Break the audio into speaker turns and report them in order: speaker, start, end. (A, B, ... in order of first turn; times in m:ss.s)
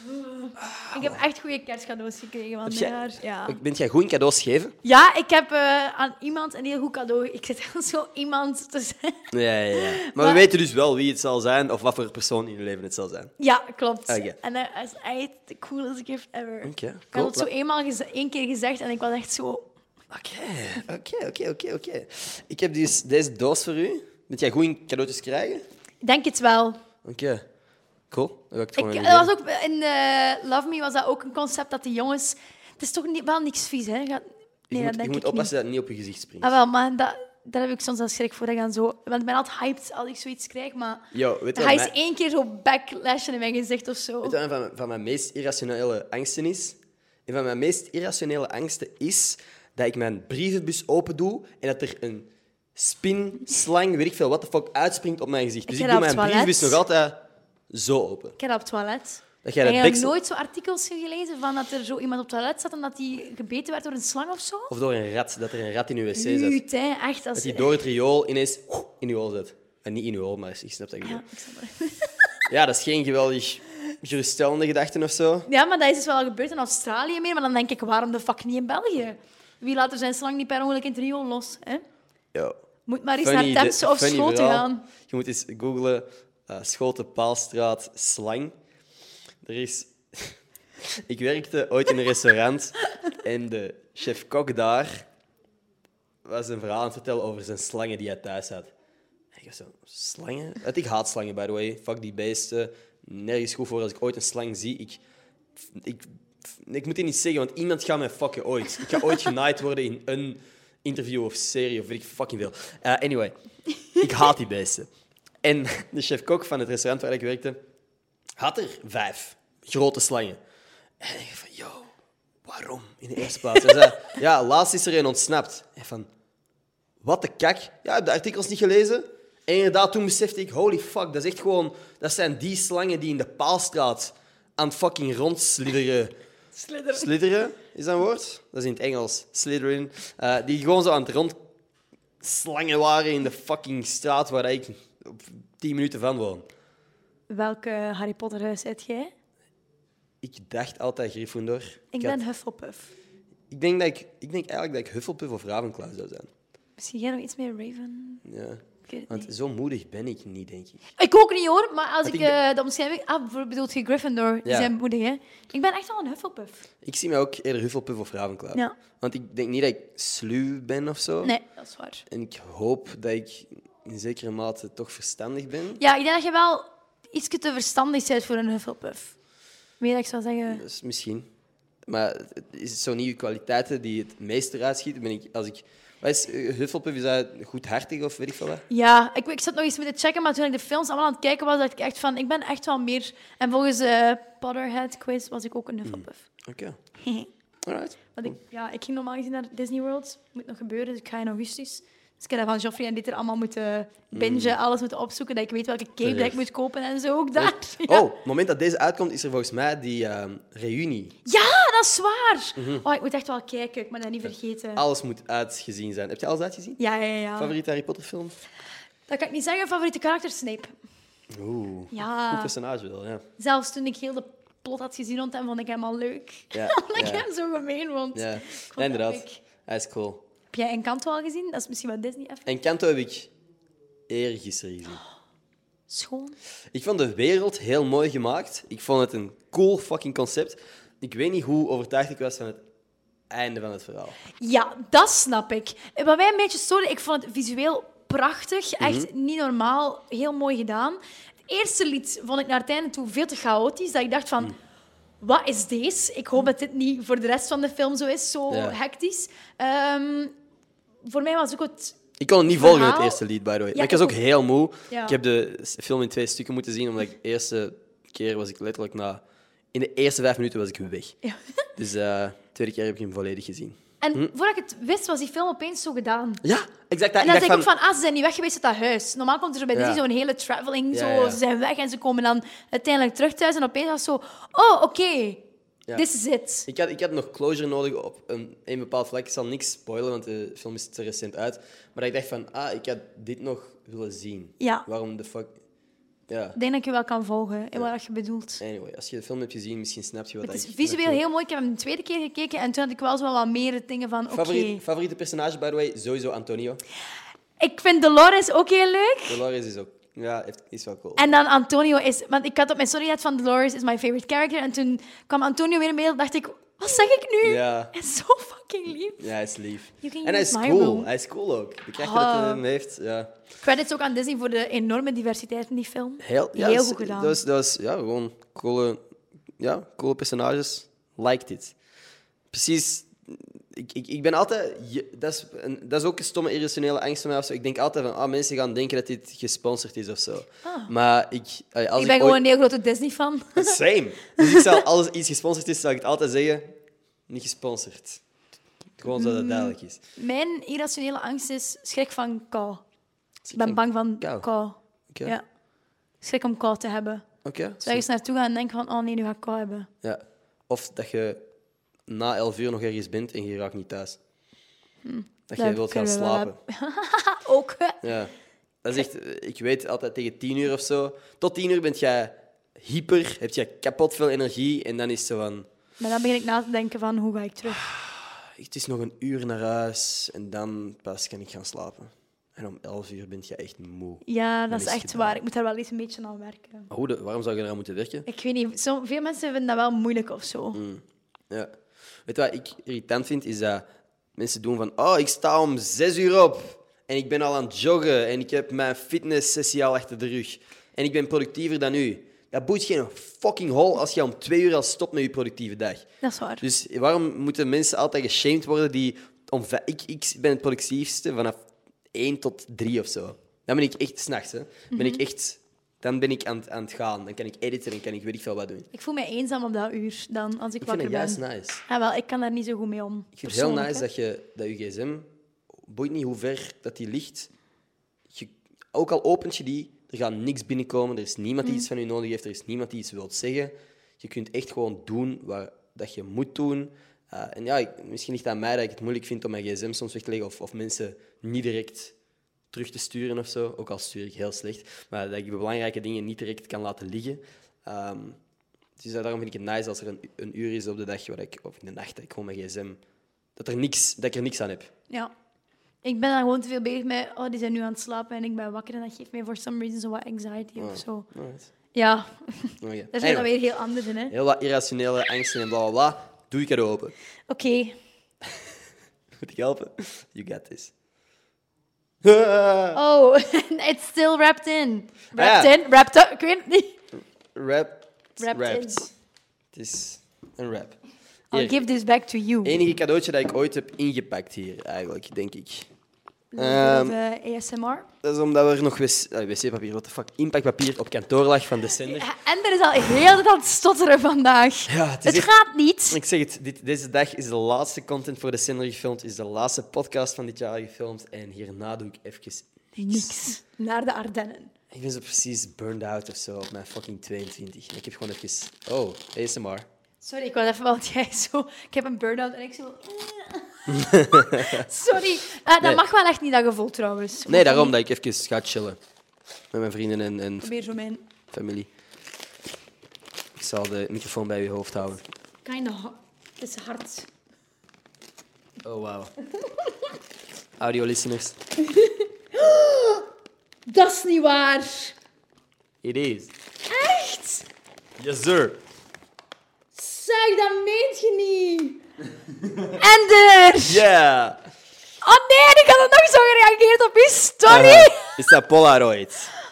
0:00.1-0:03.6 A
0:00.6-0:01.2 B
0:02.7-0:04.8 B
0:04.8-0:10.4 A
0:09.3-0:13.3 B
0:13.4-0:19.7 A
0:14.1-0:14.4 B
0:16.6-0:17.5 B
0:20.1-0:25.7 B
0:26.0-0:26.8 A
0:27.0-0:27.4 B
0:28.1-0:29.3 B
0:28.8-0:35.5 A
0:34.7-0:36.6 B
0:36.4-0:44.4 A
0:41.1-0:41.9 B
0:44.2-0:58.4 B
0:55.7-0:56.8 A
0:58.4-1:04.7 A
0:59.4-1:00.1 B
1:04.7-1:06.6 B
1:06.2-1:07.7 A
1:07.4-1:11.2 B
1:11.0-1:12.3 A
1:12.5-1:15.5 B
1:15.5-1:21.8 A
1:22.9-1:24.9 A
1:23.2-1:28.6 B
1:29.4-1:30.4 B
1:31.0-1:35.1 B
1:36.2-1:38.7 B
1:39.3-1:45.0 B
1:45.7-1:53.4 B
1:53.9-1:54.9 B
1:55.4-1:57.6 B
1:58.4-2:00.4 B
2:01.0-2:01.9 B
2:02.5-2:06.1 B
2:03.6-2:03.9 A
2:07.0-2:16.1 B
2:16.6-2:17.1 A
2:16.9-2:21.4 B
2:22.2-2:26.5 B
2:27.3-2:29.1 A
2:30.2-2:32.2 B
2:31.9-2:32.9 A
2:33.5-2:36.3 B
2:36.8-2:38.2 A
2:38.2-2:40.8 B
2:38.9-2:39.3 A
2:41.0-2:46.7 A
2:42.0-2:42.4 B
2:44.4-2:44.7 B
2:46.8-2:51.3 B
2:51.2-2:52.0 A
2:52.1-2:55.8 B
2:55.8-2:59.1 A
2:59.8-3:00.6 A
3:00.5-3:01.3 B
3:01.9-3:08.6 B
3:08.7-3:16.2 A
3:15.9-3:16.8 B
3:17.0-3:17.3 A
3:17.7-3:18.4 B
3:18.2-3:28.1 A
3:24.1-3:24.6 B
3:26.0-3:26.4 B
3:27.4-3:31.2 B
3:31.3-3:34.8 A
3:32.6-3:32.8 B
3:34.8-3:36.8 B
3:36.8-3:37.5 A
3:37.4-3:38.4 B
3:39.1-3:40.7 A
3:41.3-3:43.2 B
3:41.9-3:42.5 A
3:43.4-3:49.4 A
3:46.5-3:47.2 B
3:48.1-3:50.2 B
3:50.5-3:52.5 A
3:52.5-3:53.3 B
3:54.1-3:55.0 B
3:55.9-3:56.4 A
3:56.7-4:02.6 B
4:03.3-4:04.2 B
4:04.4-4:14.6 A
4:08.8-4:09.1 B
4:15.2-4:20.3 A
4:18.5-4:18.8 B
4:21.0-4:23.2 A
4:22.2-4:29.2 B
4:23.7-4:24.2 A
4:24.9-4:25.2 A
4:29.7-4:31.2 B
4:31.8-4:34.3 B
4:34.0-4:36.4 A
4:36.4-4:37.7 B
4:37.2-4:46.7 A
4:39.8-4:40.0 B
4:40.9-4:41.4 B
4:46.7-4:55.6 B
4:54.6-4:54.9 A
4:56.3-4:56.6 B
4:56.6-4:58.6 A
4:58.6-5:01.2 B
5:00.4-5:04.8 A
5:04.3-5:06.8 B
5:07.6-5:09.4 A
5:09.3-5:11.3 B
5:11.2-5:19.3 A
5:17.4-5:17.9 B
5:19.2-5:23.3 B
5:20.0-5:21.1 A
5:22.0-5:22.6 A
5:23.6-5:27.4 A
5:26.2-5:29.0 B
5:29.6-5:31.8 B
5:32.5-5:42.4 B
5:40.6-5:40.9 A
5:42.0-5:43.8 A
5:43.6-5:46.7 B
5:44.4-5:44.8 A
5:47.3-5:48.2 B
5:49.0-5:50.0 B
5:49.2-5:52.8 A
5:53.4-5:54.5 B
5:53.6-5:55.4 A
5:56.2-5:57.3 A
5:57.4-5:58.1 B
5:57.8-5:59.9 A
6:00.0-6:01.4 B
6:02.1-6:04.2 B
6:05.0-6:08.0 A
6:05.5-6:06.6 B
6:08.0-6:08.3 B
6:08.8-6:15.7 B
6:16.0-6:17.8 A
6:17.7-6:25.4 B
6:24.2-6:26.9 A
6:26.9-6:28.3 B
6:28.3-6:30.8 A
6:30.8-6:31.8 B
6:32.3-6:33.8 B
6:34.4-6:46.1 B
6:46.2-6:46.6 A
6:46.6-6:51.6 B
6:52.1-6:58.9 B
6:54.9-6:55.2 A
6:58.9-7:04.1 A
7:00.8-7:01.8 B
7:03.4-7:05.3 B
7:05.8-7:07.5 B
7:08.3-7:22.1 B
7:11.6-7:11.9 A
7:22.7-7:28.4 B
7:29.0-7:33.0 B
7:33.6-7:34.9 B
7:36.0-7:41.3 A
7:40.8-7:41.7 B
7:41.9-7:44.3 A
7:42.8-7:43.5 B
7:44.3-7:47.1 B
7:47.5-7:48.0 A
7:49.4-7:50.9 B
7:52.2-7:53.0 B
7:52.9-7:57.0 A
7:55.4-7:55.7 B
7:57.5-7:59.1 B
7:58.4-7:59.0 A
7:59.7-8:01.0 B
8:01.5-8:01.8 B
8:01.5-8:02.8 A
8:02.6-8:05.9 B
8:06.5-8:08.1 A
8:06.6-8:07.2 B
8:08.2-8:12.3 B
8:12.0-8:16.2 A
8:14.9-8:15.5 B
8:16.1-8:23.3 B
8:23.0-8:24.7 A
8:24.9-8:29.9 B
8:30.2-8:37.9 A
8:33.9-8:34.9 B
8:37.5-8:39.0 B
8:39.7-8:40.7 B
8:40.6-8:41.2 A
8:41.5-8:41.9 B
8:43.6-8:45.2 B
8:45.6-8:47.3 A
8:48.8-8:49.3 B
8:49.6-8:50.1 A
8:50.8-8:51.6 B
8:51.8-8:53.3 A
8:53.9-8:55.2 A
8:56.0-8:56.5 B
8:56.8-8:57.7 A
8:58.2-8:58.8 B
8:59.9-9:02.0 A
9:03.0-9:04.0 A
9:03.8-9:04.6 B
9:05.2-9:08.4 A
9:07.7-9:09.5 B